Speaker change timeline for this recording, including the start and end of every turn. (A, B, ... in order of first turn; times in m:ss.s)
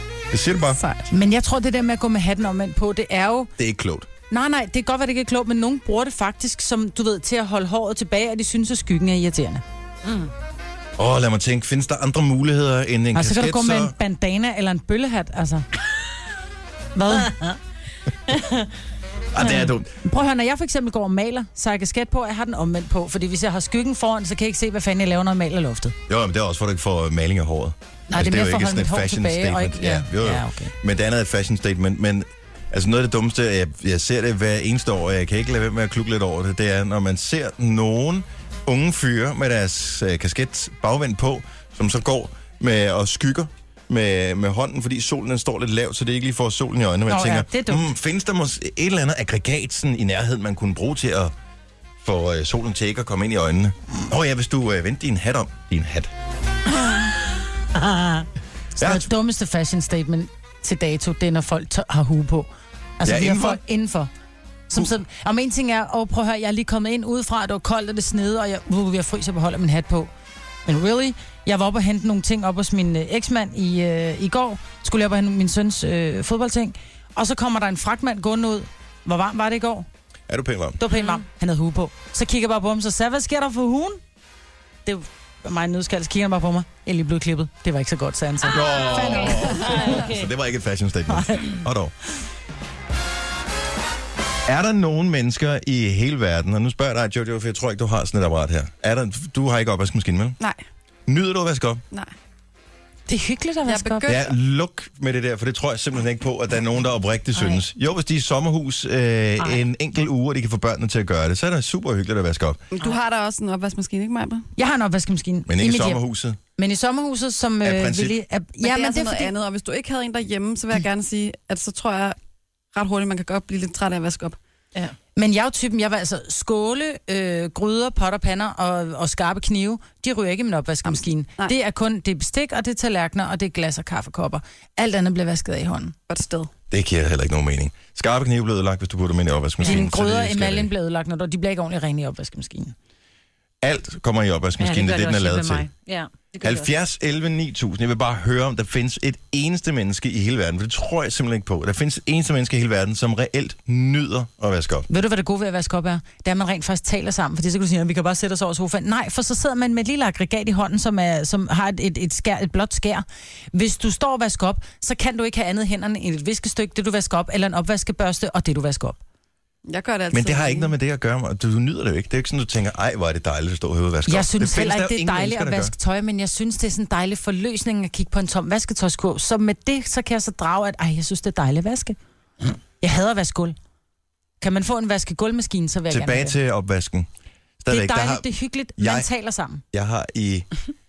0:00.3-0:00.8 A
0:00.8-0:01.0 B
0:01.1-0:03.5 C
0:03.6-0:04.1 A
0:04.3-0:09.6 C
0:11.0-0:13.9 A
0:13.1-0:15.6 C
0:16.9-0:17.4 C
0:17.2-0:17.6 D
0:19.3-0:19.9 A
0:19.4-0:25.9 C
0:26.1-0:51.3 A
0:28.1-0:30.7 C
0:47.1-0:47.9 C
0:52.0-0:56.1 A
0:58.8-0:59.1 A
0:58.8-1:04.1 C
1:03.0-1:03.6 A
1:04.7-1:10.1 C
1:10.6-1:19.9 C
1:20.3-1:20.8 A
1:20.8-1:24.0 C
1:20.9-1:21.2 D
1:24.8-1:29.9 C
1:28.4-1:31.9 A
1:29.5-1:30.3 D
1:34.4-1:40.4 A
1:41.1-1:41.8 A
1:43.1-1:44.1 C
1:43.6-1:44.3 B
1:44.0-1:52.6 A
1:52.7-1:54.5 B
1:54.6-1:56.0 C
1:55.5-1:56.4 A
1:56.6-1:59.3 C
1:57.6-1:58.2 A
1:58.6-2:02.2 B
2:02.7-2:04.4 B
2:05.2-2:15.9 C
2:10.8-2:11.5 B
2:16.1-2:16.5 B
2:16.7-2:20.7 A
2:19.6-2:22.7 C
2:23.6-2:25.7 A
2:24.6-2:26.7 D
2:26.4-2:34.9 A
2:34.9-2:49.0 C
2:49.7-2:50.7 B
2:50.1-2:55.7 A
2:54.1-3:02.0 C
3:02.8-3:03.6 C
3:04.4-3:06.4 C
3:05.9-3:07.1 A
3:07.6-3:08.2 A
3:07.7-3:09.6 C
3:08.8-3:09.1 A
3:09.7-3:10.5 A